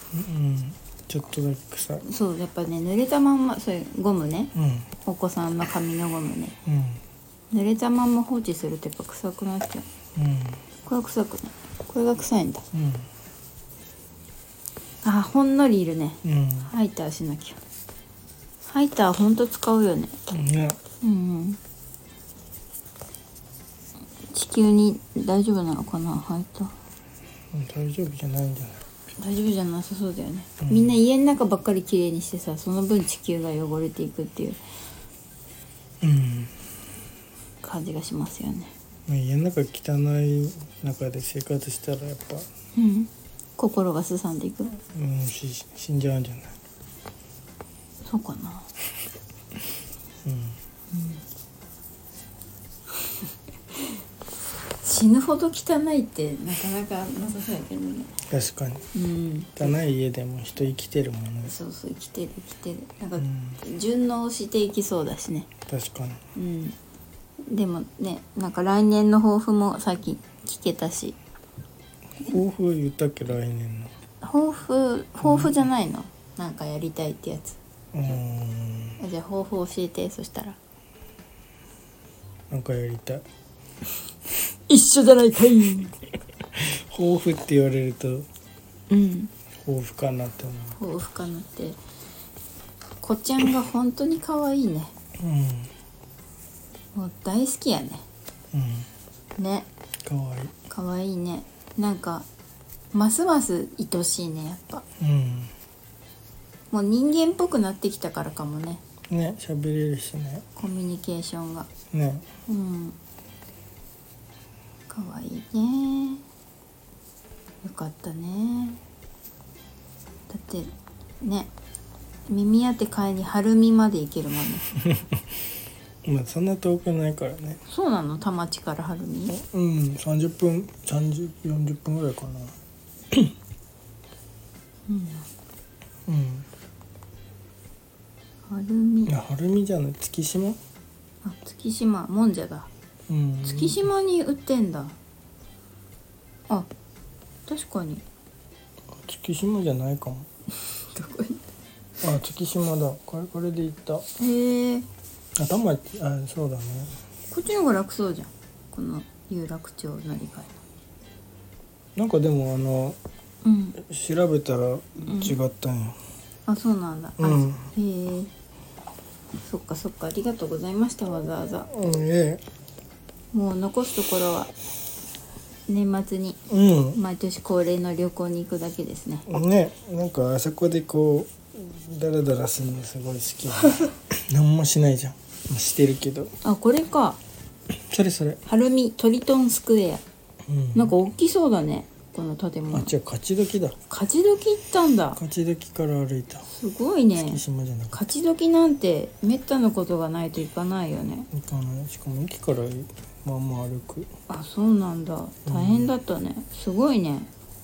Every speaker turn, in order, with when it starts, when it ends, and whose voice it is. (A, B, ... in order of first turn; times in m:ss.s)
0:00.1-0:02.0 A
0:02.0-0:04.5 B
0:04.6-0:04.9 A
0:05.0-0:06.6 B
0:06.7-0:07.0 A
0:07.5-0:09.9 B
0:10.2-0:10.6 A
0:10.8-0:12.7 B
0:12.7-0:13.1 A
0:15.0-0:17.6 B
0:16.2-0:16.7 A
0:18.7-0:20.2 B
0:20.3-0:20.8 A
0:21.0-0:21.6 B
0:24.3-0:26.7 B
0:27.5-0:28.8 A
0:29.2-0:34.6 B
0:30.6-0:31.0 A
0:36.0-0:36.5 A
0:37.6-0:38.7 B
0:39.1-0:42.5 A
0:42.8-0:44.8 B
0:44.9-0:46.6 A
0:48.0-0:48.7 B
0:50.2-0:50.6 A
0:50.9-0:51.2 B
0:54.8-0:58.1 B
0:58.3-0:58.9 A
0:58.9-0:59.7 B
0:59.6-1:01.6 A
1:01.5-1:05.5 B
1:03.2-1:03.6 A
1:05.7-1:06.2 A
1:06.4-1:06.8 B
1:07.5-1:11.2 B
1:12.2-1:13.9 A
1:14.2-1:17.6 B
1:15.2-1:15.6 A
1:17.9-1:19.0 A
1:19.0-1:20.6 B
1:22.5-1:23.2 A
1:24.7-1:26.0 B
1:26.6-1:28.3 A
1:28.9-1:29.3 B
1:29.6-1:30.8 A
1:30.8-1:31.8 B
1:33.0-1:34.9 B
1:35.2-1:35.7 A
1:37.0-1:38.0 B
1:38.5-1:38.9 A
1:39.4-1:39.7 B
1:40.0-1:40.5 A
1:40.7-1:42.3 B
1:42.9-1:44.8 B
1:45.0-1:45.5 A
1:46.7-1:48.8 B
1:49.1-1:50.5 A
1:50.6-1:51.7 B
1:51.9-1:52.3 A
1:52.5-1:53.0 B
1:54.9-1:56.2 B
1:57.6-1:58.8 B
2:00.3-2:01.5 B
2:02.3-2:04.7 B
2:06.0-2:07.6 A
2:07.7-2:09.4 B
2:09.4-2:12.6 A
2:14.9-2:15.3 B
2:16.1-2:16.5 A
2:18.5-2:19.1 B
2:19.1-2:20.6 A
2:21.2-2:22.7 B
2:23.1-2:23.8 A
2:23.4-2:25.0 B
2:27.5-2:28.0 B
2:28.9-2:30.3 A
2:30.7-2:31.4 B
2:32.0-2:34.0 A
2:34.2-2:34.9 B
2:35.4-2:37.0 A
2:37.3-2:40.6 B
2:42.0-2:43.0 A
2:43.4-2:43.8 B
2:43.8-2:46.0 A
2:45.0-2:45.3 B
2:46.5-2:48.3 B
2:47.2-2:47.7 A
2:49.4-2:51.7 B
2:51.7-2:52.4 A
2:53.3-2:54.5 B
2:55.7-2:56.4 B
2:56.5-2:57.0 A
2:56.9-2:59.3 B
2:59.3-3:06.3 A
3:06.4-3:07.2 B
3:07.7-3:08.4 A
3:08.5-3:10.0 B
3:10.5-3:11.0 A
3:10.8-3:12.9 B
3:12.7-3:13.8 A
3:13.9-3:15.2 B
3:15.2-3:16.5 A
3:16.5-3:17.4 B
3:17.2-3:18.1 A
3:17.9-3:21.3 B
3:21.3-3:24.1 A
3:24.3-3:27.3 B
3:25.5-3:25.9 A